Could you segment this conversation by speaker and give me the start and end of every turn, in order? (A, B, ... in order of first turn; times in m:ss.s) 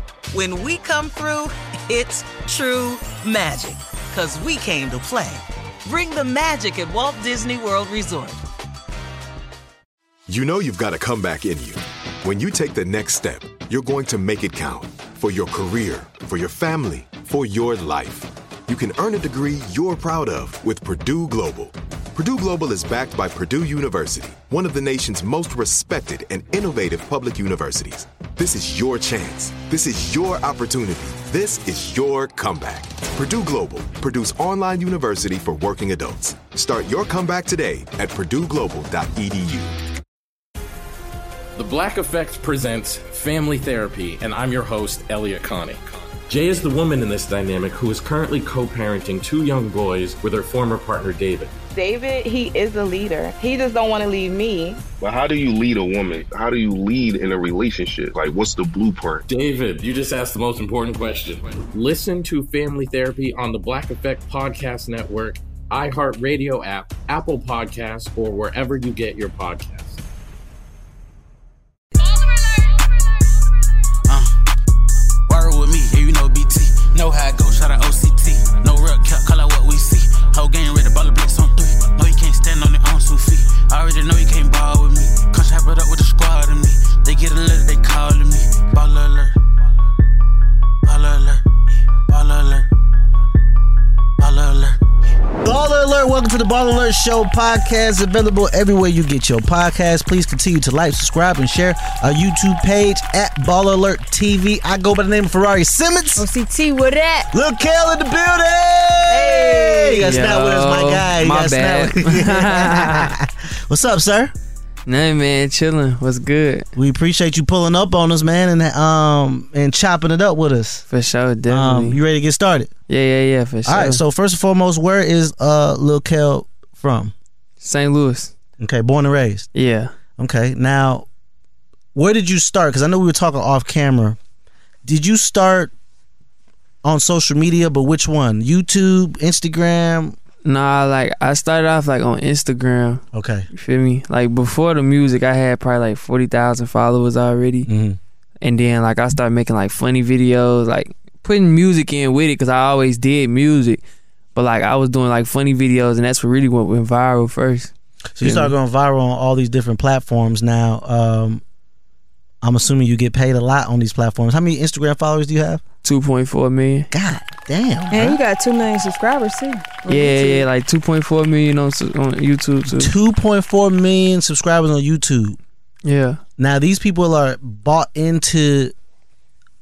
0:00.3-0:08.4 A
0:10.3-0:39.8 B
0:41.6-0:51.5 C
0:51.7-0:54.8 D
0:55.0-0:59.2 E
0:59.3-1:10.0 C
1:14.1-1:14.3 F
1:15.3-1:29.4 F
1:30.8-1:31.4 F
1:32.1-1:32.7 F
1:34.2-1:34.8 F
1:35.4-1:46.2 G
1:46.2-1:47.3 H
1:47.3-1:54.3 G
1:49.1-1:50.0 H
1:50.0-1:53.1 I
1:54.9-1:56.7 I
1:56.8-2:00.8 G
2:00.9-2:02.0 I
2:01.5-2:02.7 G
2:02.9-2:04.0 I
2:03.6-2:07.1 G
2:07.6-2:08.3 I
2:08.6-2:09.5 G
2:09.5-2:09.9 I
2:10.2-2:11.1 G
2:12.0-2:14.2 G
2:14.8-2:15.7 G
2:16.8-2:20.2 G
2:20.4-2:27.7 I
2:23.1-2:23.5 G
2:27.7-2:28.0 G
2:28.4-2:33.8 I
2:34.4-2:38.5 I
2:38.2-2:41.4 G
2:42.4-2:45.6 G
2:45.8-2:46.9 I
2:46.9-2:48.2 G
2:47.9-2:50.5 H
2:49.9-2:52.9 I
2:52.7-2:55.4 G
2:55.8-2:56.2 I
2:56.4-2:58.7 G